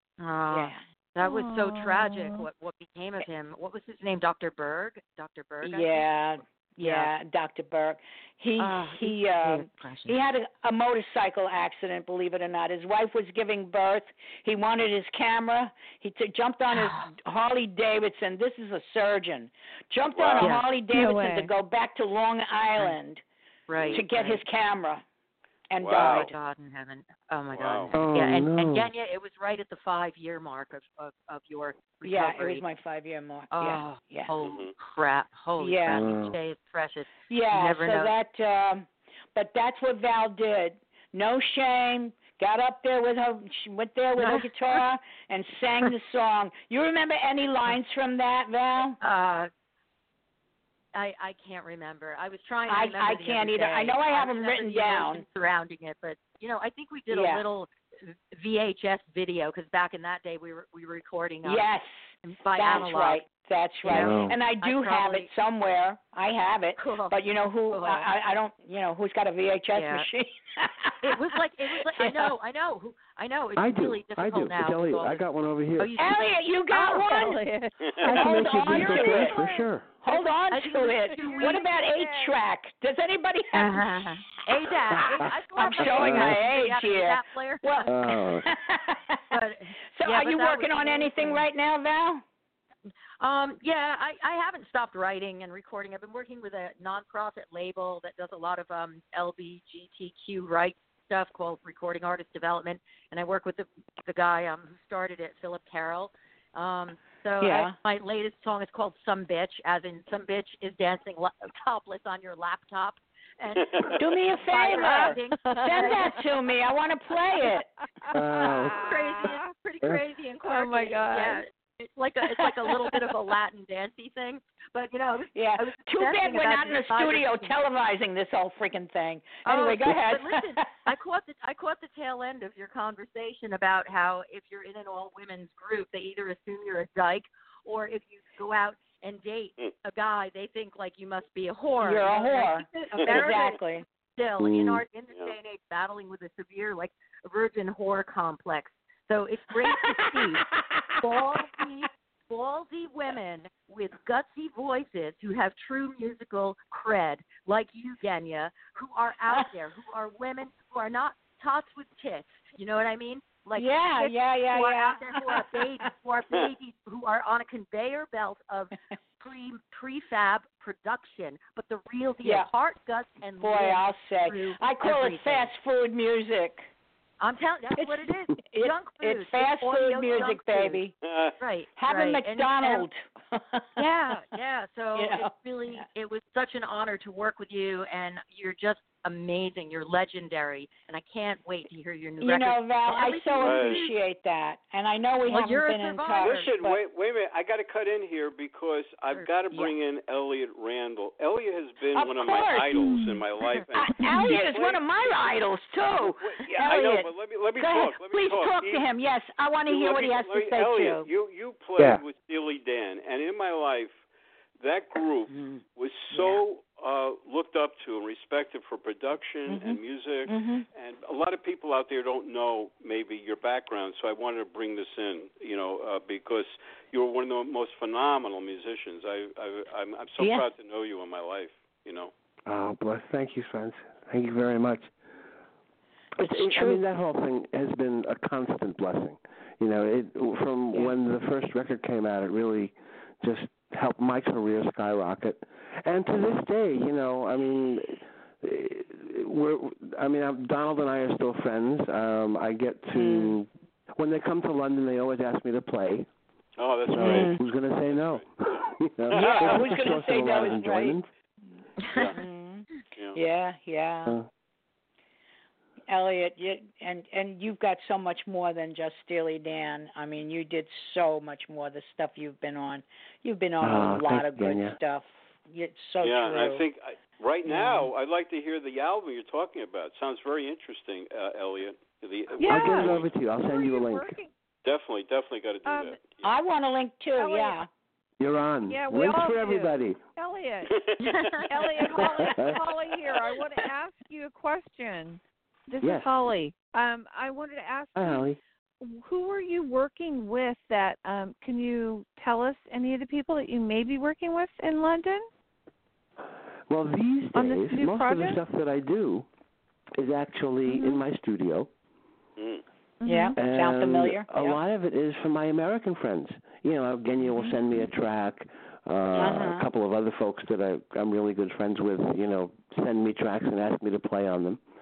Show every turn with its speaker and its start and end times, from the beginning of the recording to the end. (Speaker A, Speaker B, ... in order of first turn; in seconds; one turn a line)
Speaker A: 0.2-6.1
Speaker B: 0.5-0.8
Speaker C: 1.2-2.5
Speaker B: 5.6-23.2
Speaker A: 6.8-7.1
Speaker A: 8.6-10.2
Speaker A: 16.7-17.1
Speaker D: 20.1-20.5
Speaker A: 20.4-20.7
Speaker C: 20.9-21.5
Speaker A: 23.7-24.4
Speaker D: 23.8-24.0
Speaker B: 23.9-25.0
Speaker B: 25.7-26.3
Speaker D: 25.8-26.3
Speaker A: 25.9-32.6
Speaker D: 27.5-27.9
Speaker E: 27.9-28.9
Speaker B: 32.0-34.3
Speaker A: 33.5-38.1
Speaker D: 34.4-34.7
Speaker B: 35.6-36.1
Speaker E: 35.9-36.4
Speaker B: 37.3-49.0
Speaker A: 44.2-44.8
Speaker A: 49.0-49.5
Speaker A: 50.9-61.6
Speaker B: 52.7-55.2
Speaker B: 57.1-57.5
Speaker B: 61.4-72.3
Speaker A: 62.2-63.2
Speaker A: 63.8-65.3
Speaker E: 63.9-64.5
Speaker A: 66.8-67.2
Speaker A: 67.7-68.1
Speaker A: 69.7-70.1
Speaker A: 71.0-75.3
Speaker E: 73.6-76.0
Speaker A: 75.8-76.3
Speaker B: 76.0-77.4
Speaker C: 76.7-79.7
Speaker A: 76.9-77.3
Speaker E: 78.0-80.0
Speaker B: 78.0-79.4
Speaker B: 80.0-84.1
Speaker A: 80.1-81.7
Speaker C: 81.1-82.4
Speaker A: 83.5-88.2
Speaker E: 84.9-86.4
Speaker B: 85.0-89.4
Speaker E: 87.9-88.5
Speaker A: 89.3-91.5
Speaker B: 89.9-92.2
Speaker A: 93.2-116.3
Speaker B: 107.4-107.8
Speaker D: 113.6-114.0
Speaker B: 114.0-117.7
Speaker C: 114.8-116.2
Speaker C: 118.1-119.5
Speaker E: 118.1-118.9
Speaker A: 118.7-127.5
Speaker C: 120.4-121.4
Speaker B: 122.3-122.6
Speaker B: 125.3-130.7
Speaker A: 129.4-175.5
Speaker B: 141.8-143.8
Speaker E: 144.4-144.8
Speaker B: 149.6-151.4
Speaker B: 163.6-165.9
Speaker B: 172.2-172.5
Speaker B: 173.4-176.7
Speaker A: 177.2-180.8
Speaker B: 177.8-180.9
Speaker D: 181.0-181.3
Speaker A: 181.4-182.9
Speaker B: 181.8-183.8
Speaker A: 183.8-193.9
Speaker B: 184.9-185.8
Speaker B: 192.2-196.8
Speaker D: 193.4-193.9
Speaker A: 195.3-196.5
Speaker D: 196.2-205.4
Speaker A: 199.1-199.7
Speaker B: 201.9-202.9
Speaker C: 202.9-203.2
Speaker B: 203.8-211.1
Speaker D: 206.0-208.8
Speaker D: 209.7-213.9
Speaker D: 214.6-232.1
Speaker B: 216.1-216.4
Speaker B: 219.5-220.7
Speaker B: 230.2-230.5
Speaker E: 232.5-234.9
Speaker B: 236.2-236.8
Speaker E: 236.2-256.1
Speaker B: 252.9-253.4
Speaker D: 256.6-258.2
Speaker E: 256.9-261.1
Speaker B: 257.0-257.4
Speaker D: 259.1-260.6
Speaker B: 259.1-261.0
Speaker A: 261.8-262.1
Speaker B: 262.1-264.2
Speaker B: 265.9-276.6
Speaker E: 273.6-274.8
Speaker D: 276.0-283.1
Speaker B: 277.5-277.9
Speaker C: 282.4-284.3
Speaker E: 282.4-284.2
Speaker D: 284.6-286.3
Speaker C: 285.7-286.0
Speaker B: 286.2-287.7
Speaker C: 287.2-287.6
Speaker E: 288.2-290.0
Speaker C: 288.7-290.8
Speaker D: 290.7-291.5
Speaker A: 291.0-291.5
Speaker C: 291.4-298.3
Speaker E: 292.0-292.6
Speaker E: 295.8-296.1
Speaker E: 298.0-298.4
Speaker C: 298.8-305.3
Speaker E: 306.7-309.3
Speaker C: 307.3-308.4
Speaker E: 310.0-311.7
Speaker C: 310.7-311.0
Speaker D: 312.4-312.6
Speaker C: 313.0-313.4
Speaker B: 313.1-314.6
Speaker E: 313.4-324.6
Speaker D: 319.1-319.4
Speaker B: 319.2-319.7